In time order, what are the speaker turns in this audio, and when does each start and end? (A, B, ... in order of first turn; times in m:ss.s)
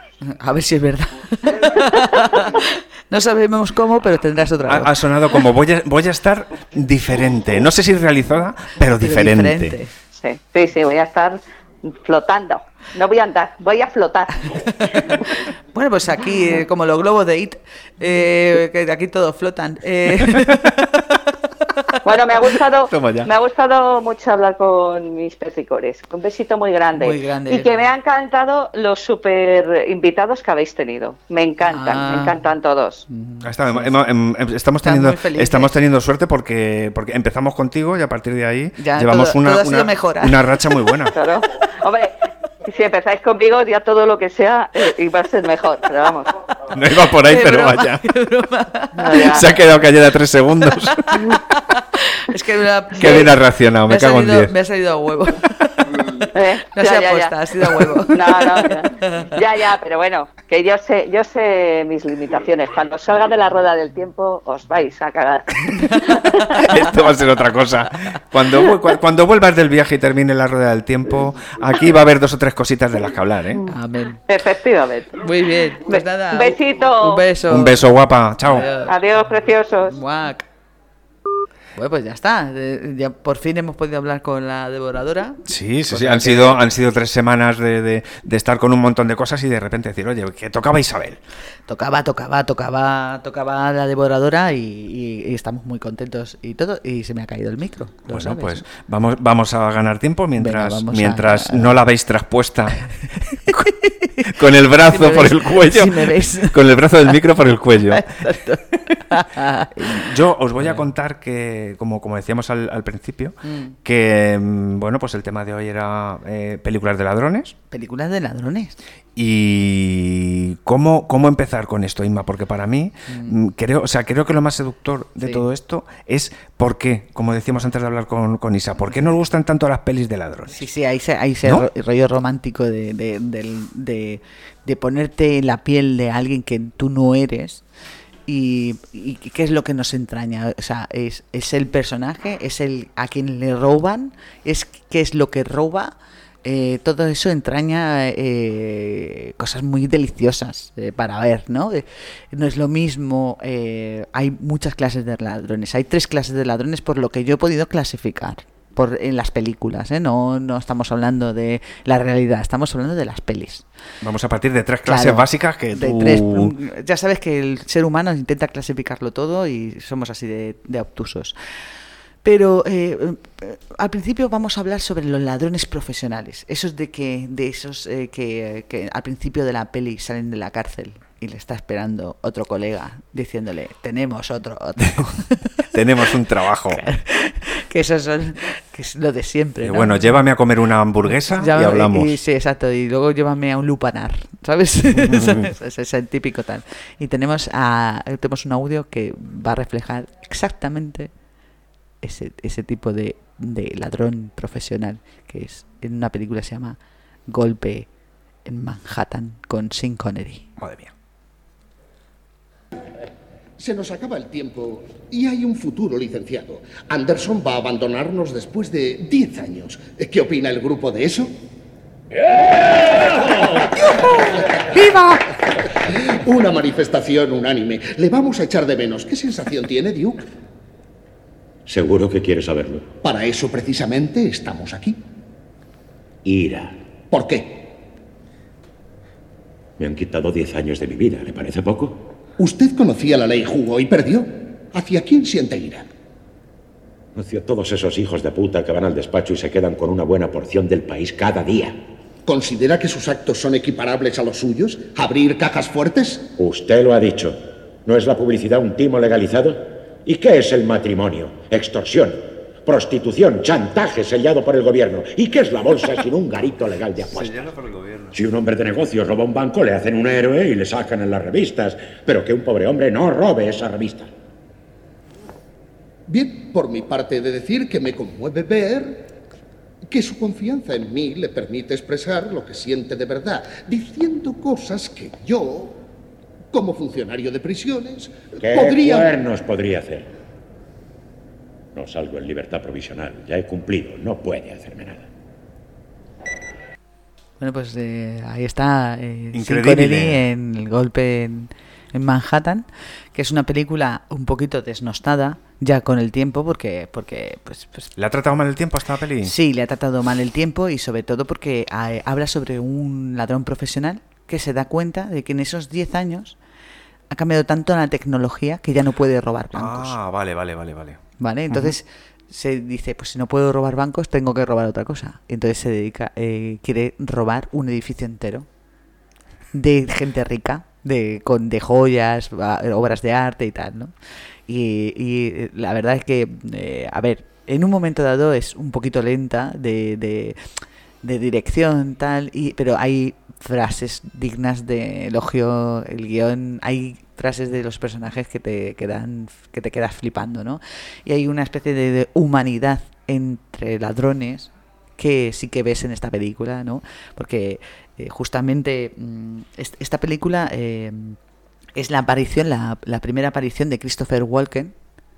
0:00.2-0:04.9 A
0:01.8-0:02.3 B
0:04.7-0:09.8 C
0:09.0-0:09.9 A
0:10.1-0:15.1 B
0:15.7-0:21.1 A
0:22.0-0:33.0 B
0:22.9-0:23.3 C
0:26.9-0:27.8 A
0:31.6-0:32.4 A
0:33.1-0:34.0 A
0:33.4-0:41.1 C
0:34.8-0:35.8 A
0:38.8-0:40.5 A
0:41.1-0:46.3 B
0:46.7-0:48.0 C
0:47.2-0:49.6 A
0:48.9-0:49.4 B
0:49.2-0:51.0 C
0:50.7-0:53.3 A
0:53.0-0:54.5 C
0:53.8-0:59.3 A
0:56.3-0:57.4 B
0:58.0-1:06.6 B
1:05.8-1:06.2 A
1:06.6-1:13.6 C
1:13.7-1:14.2 A
1:14.3-1:15.2 B
1:15.2-1:17.8 A
1:15.8-1:17.2 B
1:17.5-1:18.7 C
1:18.4-1:19.0 A
1:18.8-1:20.0 B
1:19.8-1:20.5 A
1:21.7-1:26.6 A
1:25.5-1:31.2 C
1:31.7-1:38.6 A
1:38.1-1:42.8 C
1:40.4-1:41.8 A
1:43.4-1:46.6 A
1:44.3-1:48.1 C
1:47.8-1:50.8 A
1:49.9-1:57.5 C
1:53.4-1:53.8 A
1:57.7-1:58.8 A
1:59.2-2:10.6 C
2:03.1-2:03.4 A
2:05.2-2:05.4 A
2:10.5-2:17.6 A
2:18.3-2:43.6 A
2:44.0-2:46.5 C
2:44.8-2:51.4 A
2:52.2-3:05.5 A
3:05.7-3:06.8 C
3:06.7-3:10.2 A
3:09.6-3:12.1 C
3:11.1-3:21.1 A
3:14.9-3:15.5 C
3:22.0-3:27.9 A
3:28.4-3:30.5 A
3:30.6-3:30.9 C
3:33.6-3:41.3 D
3:42.7-3:43.6 D
3:44.2-3:44.7 D
3:45.8-3:50.2 D
3:51.6-3:52.9 E
3:53.0-3:55.0 D
3:56.2-3:56.8 E
3:57.1-3:57.7 D
3:59.8-4:02.0 E
4:02.4-4:05.9 D
4:07.1-4:11.8 E
4:12.2-4:16.3 D
4:16.4-4:27.5 E
4:27.4-4:28.1 C
4:28.1-4:34.1 E
4:36.1-4:39.1 D
4:39.9-4:45.8 D
4:46.5-4:49.1 D
4:48.4-4:50.1 E
4:51.7-4:55.1 E
4:57.4-5:07.9 A
4:59.3-5:00.2 C
5:08.0-5:09.3 C
5:09.2-5:16.4 A
5:17.1-5:20.0 A
5:19.5-5:21.0 C
5:21.2-5:28.4 A
5:29.5-5:33.9 A
5:34.5-5:40.5 A
5:41.0-6:01.2 A
6:01.7-6:04.7 A